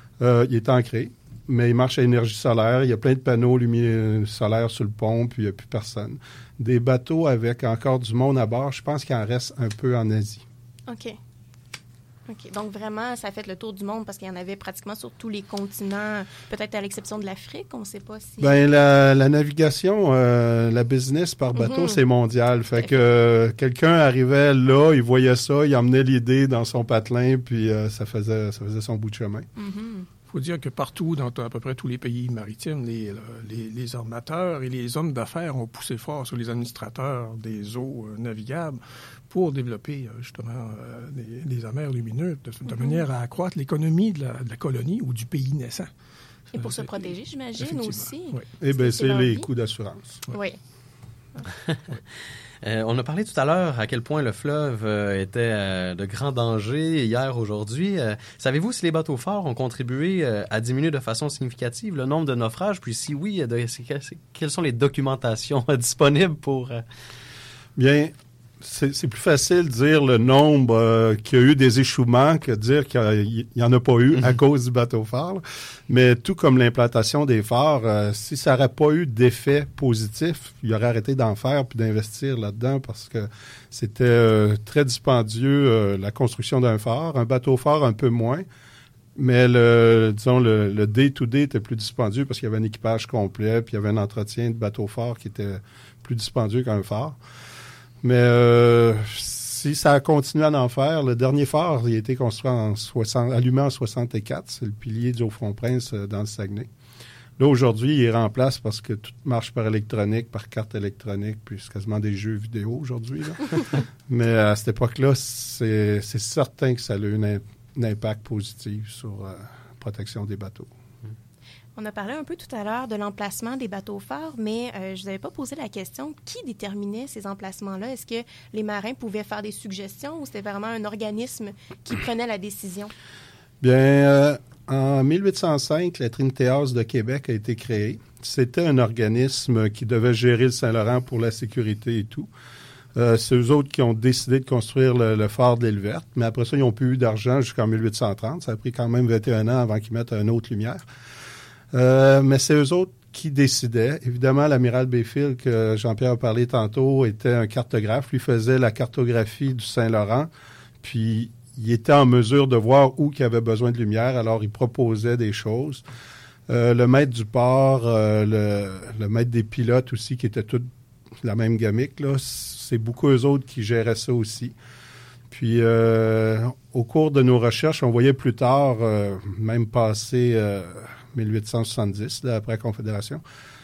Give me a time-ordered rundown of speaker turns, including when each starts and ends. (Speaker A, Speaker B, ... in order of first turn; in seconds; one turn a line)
Speaker A: 0.2-10.4
Speaker B: 10.9-11.2
Speaker B: 12.3-18.5
Speaker A: 18.4-29.5
Speaker B: 21.6-22.0
Speaker B: 29.6-30.1
Speaker C: 30.3-45.9
Speaker B: 42.7-43.0
Speaker C: 46.5-48.4
Speaker B: 46.5-49.5
Speaker A: 48.6-50.2
Speaker B: 50.3-50.6
Speaker D: 52.6-66.8
Speaker A: 67.8-88.4
Speaker A: 89.2-97.2
Speaker A: 98.0-106.7
Speaker A: 107.4-120.7
Speaker B: 121.8-132.9
Speaker A: 133.6-142.3
Speaker A: 142.9-150.8
Speaker A: 151.7-160.3
Speaker A: 160.8-165.8
Speaker A: 166.5-170.7
Speaker A: 171.2-174.5
Speaker A: 175.3-183.2